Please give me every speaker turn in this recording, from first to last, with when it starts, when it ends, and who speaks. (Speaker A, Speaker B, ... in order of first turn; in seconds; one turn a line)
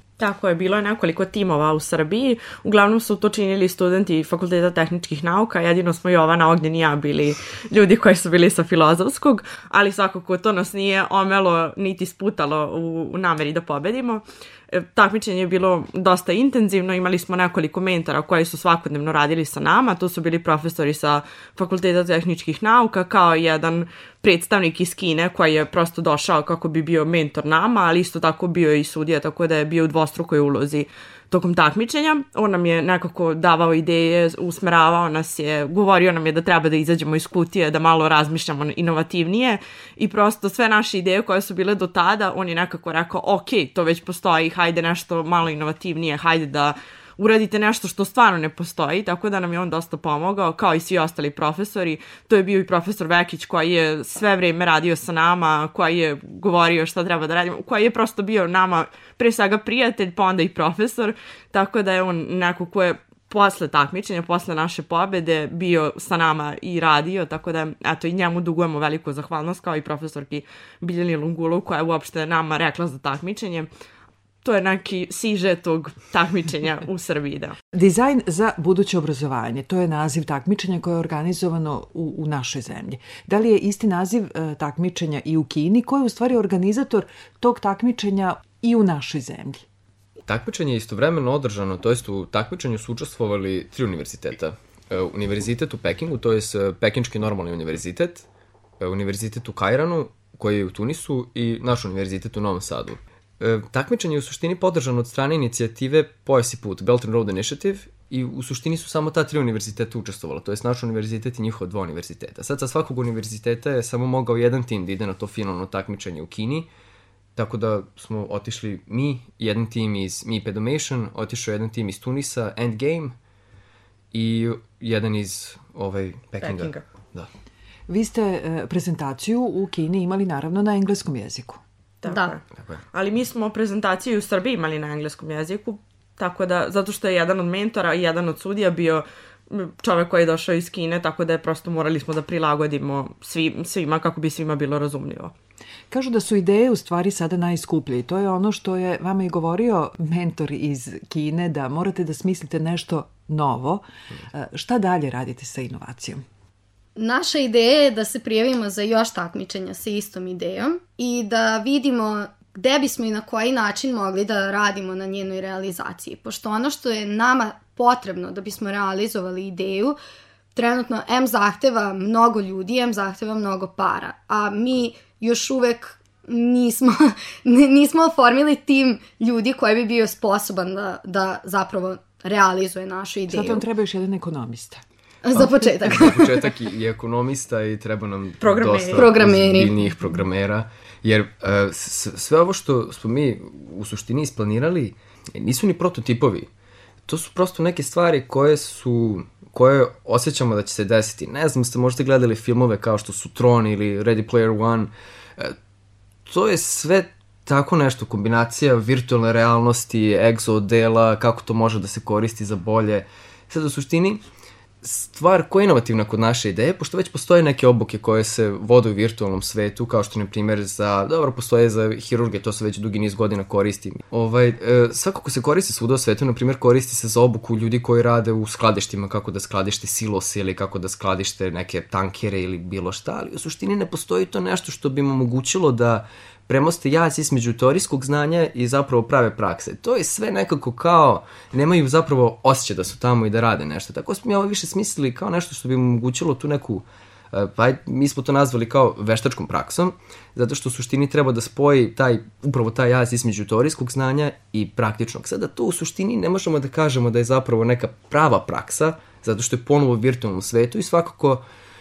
Speaker A: 0.2-73.7
Speaker A: 74.4-77.6
Speaker B: 77.7-89.7
Speaker C: 90.2-98.3
Speaker C: 98.8-116.7
Speaker C: 117.3-123.2
Speaker C: 124.1-127.3
Speaker A: 126.4-126.8
Speaker B: 127.9-131.6
Speaker A: 132.0-132.4
Speaker D: 132.1-132.3
Speaker A: 132.9-145.3
Speaker B: 145.9-156.2
Speaker D: 157.0-170.0
Speaker D: 170.6-183.7
Speaker B: 183.3-184.8
Speaker D: 185.2-186.4
Speaker C: 185.3-196.5
Speaker A: 188.4-189.1
Speaker D: 188.9-189.7
Speaker C: 197.1-205.6
Speaker C: 206.3-214.2
Speaker C: 214.8-261.4